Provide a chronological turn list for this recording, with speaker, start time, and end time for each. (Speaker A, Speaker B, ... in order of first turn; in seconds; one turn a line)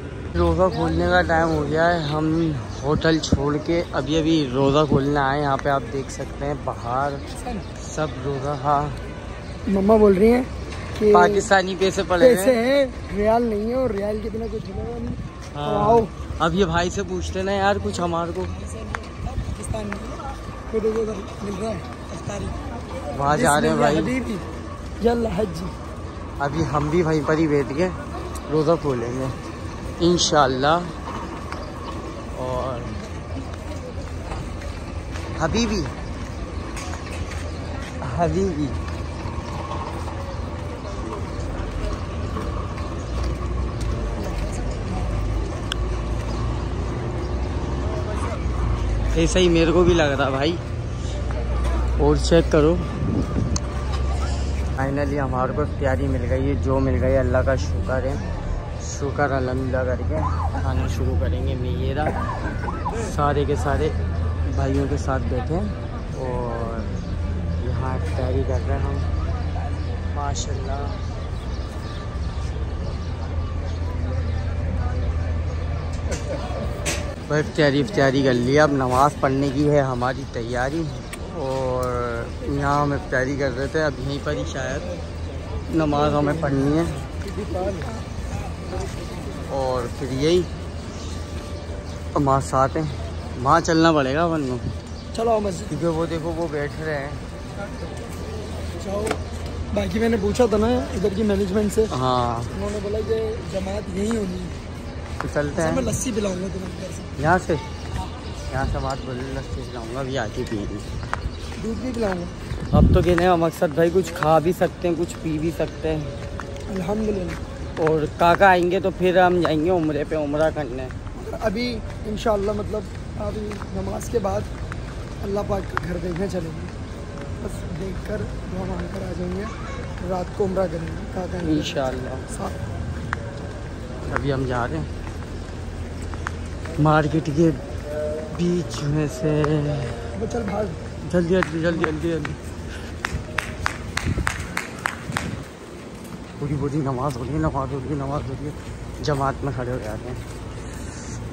Speaker A: 0.3-7.2
Speaker B: 7.3-7.7
Speaker A: 7.8-9.0
Speaker B: 9.7-11.5
Speaker A: 11.1-12.6
Speaker B: 12.2-16.1
Speaker A: 15.5-18.5
Speaker B: 18.5-22.6
Speaker B: 23.1-24.4
Speaker A: 23.1-24.1
Speaker B: 25.0-25.7
Speaker A: 26.4-29.4
Speaker A: 30.0-30.9
Speaker A: 32.3-32.9
Speaker A: 35.4-35.9
Speaker A: 38.0-38.8
Speaker A: 49.1-50.6
Speaker A: 52.0-52.8
Speaker A: 54.8-58.2
Speaker A: 58.8-62.2
Speaker A: 63.0-64.0
Speaker A: 64.5-66.9
Speaker A: 67.6-69.1
Speaker A: 70.1-71.0
Speaker A: 77.3-84.9
Speaker A: 85.7-87.0
Speaker B: 86.2-88.0
Speaker A: 89.5-90.5
Speaker A: 92.2-94.7
Speaker B: 95.1-95.8
Speaker A: 95.7-97.2
Speaker B: 97.6-98.0
Speaker B: 98.7-99.2
Speaker B: 99.7-102.0
Speaker A: 101.9-102.5
Speaker B: 102.5-104.6
Speaker A: 105.2-105.9
Speaker B: 105.5-107.1
Speaker A: 107.2-107.7
Speaker A: 108.5-110.9
Speaker B: 111.6-112.3
Speaker A: 112.7-116.1
Speaker B: 116.7-117.4
Speaker A: 117.8-120.9
Speaker B: 121.2-124.5
Speaker B: 125.2-126.8
Speaker B: 127.4-132.6
Speaker A: 131.4-132.3
Speaker A: 134.1-134.9
Speaker A: 136.8-137.6
Speaker A: 138.3-140.0
Speaker B: 140.2-140.8
Speaker A: 141.1-142.4
Speaker A: 146.4-150.2